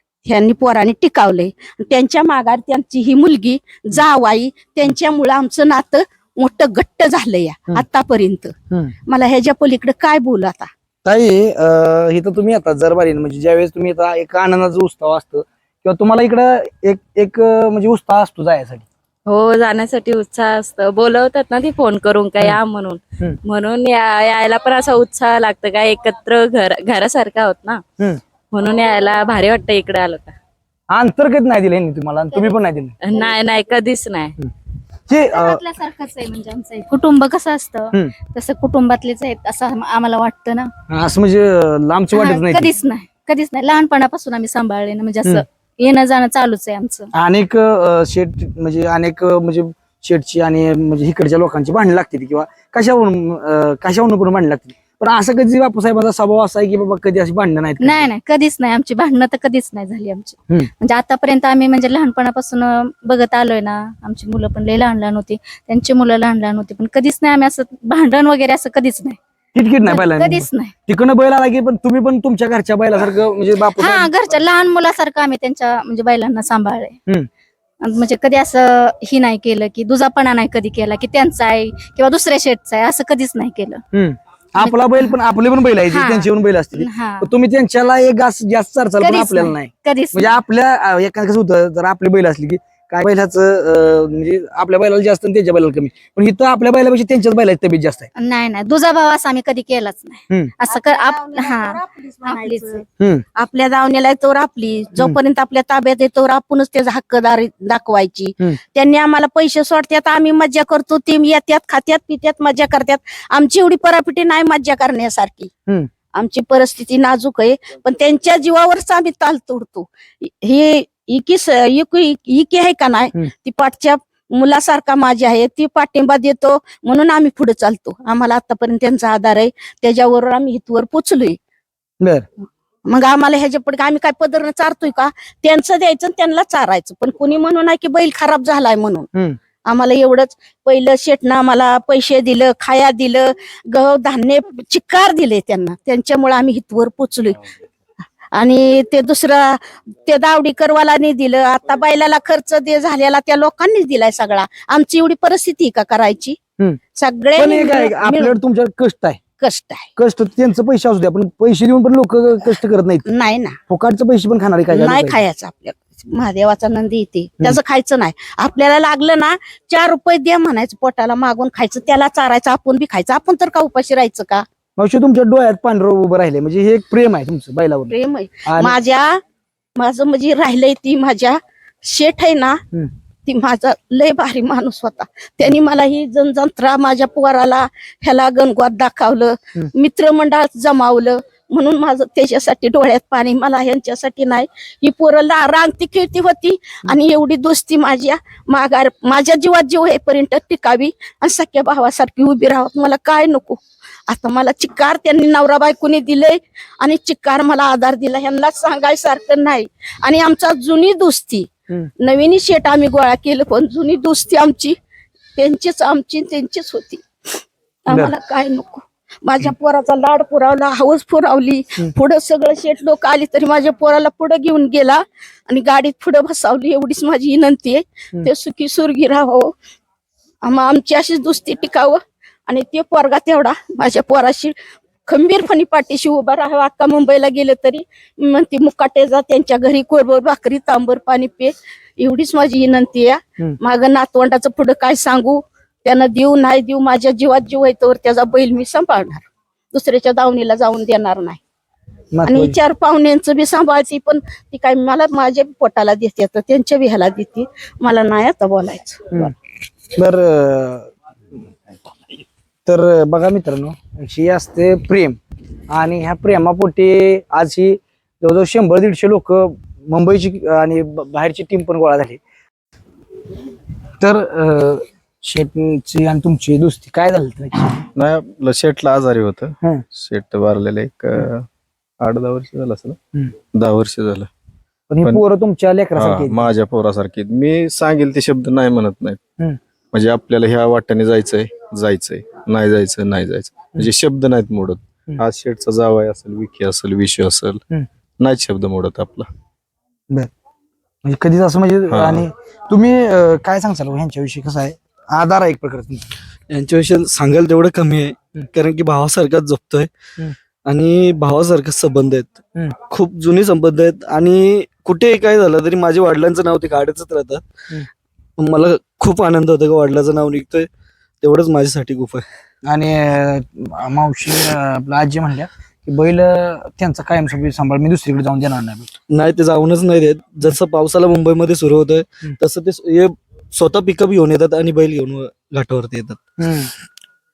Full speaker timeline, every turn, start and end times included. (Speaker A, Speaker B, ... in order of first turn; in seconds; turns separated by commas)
Speaker A: 0.2-8.5, Speaker A: 9.1-10.7, Speaker B: 11.0-18.9, Speaker C: 19.3-27.8, Speaker C: 28.5-30.3, Speaker B: 30.9-32.9, Speaker C: 33.0-34.3, Speaker B: 35.1-35.6, Speaker D: 35.3-40.7, Speaker B: 40.9-42.7, Speaker D: 42.1-47.1, Speaker B: 47.1-58.1, Speaker D: 57.8-69.2, Speaker B: 69.5-74.1, Speaker D: 69.8-70.7, Speaker D: 73.7-77.0, Speaker D: 77.8-83.8, Speaker B: 83.9-98.1, Speaker D: 84.6-85.2, Speaker D: 85.8-87.3, Speaker D: 89.0-90.4, Speaker D: 98.2-102.8, Speaker A: 100.7-102.8, Speaker B: 103.0-103.2, Speaker A: 103.3-115.5, Speaker A: 116.1-131.4, Speaker A: 132.8-139.1, Speaker A: 139.6-147.4, Speaker A: 148.3-156.4, Speaker A: 156.9-158.3, Speaker B: 157.3-159.2, Speaker A: 159.4-159.9, Speaker B: 159.9-163.1, Speaker A: 163.1-163.6, Speaker B: 163.7-165.2, Speaker A: 164.7-174.4, Speaker B: 174.8-177.9, Speaker A: 177.9-179.2, Speaker B: 178.4-178.8, Speaker A: 179.8-182.6, Speaker A: 183.3-211.5, Speaker A: 212.0-214.7, Speaker A: 215.4-229.5, Speaker A: 230.4-234.5, Speaker A: 235.1-251.4, Speaker B: 252.1-252.6, Speaker A: 252.2-259.3, Speaker B: 259.9-260.9, Speaker B: 262.6-265.2, Speaker B: 265.7-272.2, Speaker B: 274.0-277.9, Speaker E: 277.9-281.4, Speaker E: 282.0-283.0, Speaker E: 283.5-284.3, Speaker B: 284.9-286.5, Speaker E: 286.0-289.2, Speaker E: 289.9-297.6, Speaker E: 298.2-299.3, Speaker B: 301.0-306.1, Speaker E: 301.9-302.3, Speaker F: 306.5-309.9, Speaker F: 310.6-317.4, Speaker F: 318.4-320.7, Speaker F: 321.2-322.2, Speaker B: 322.6-328.9, Speaker F: 329.1-336.2, Speaker B: 336.4-336.7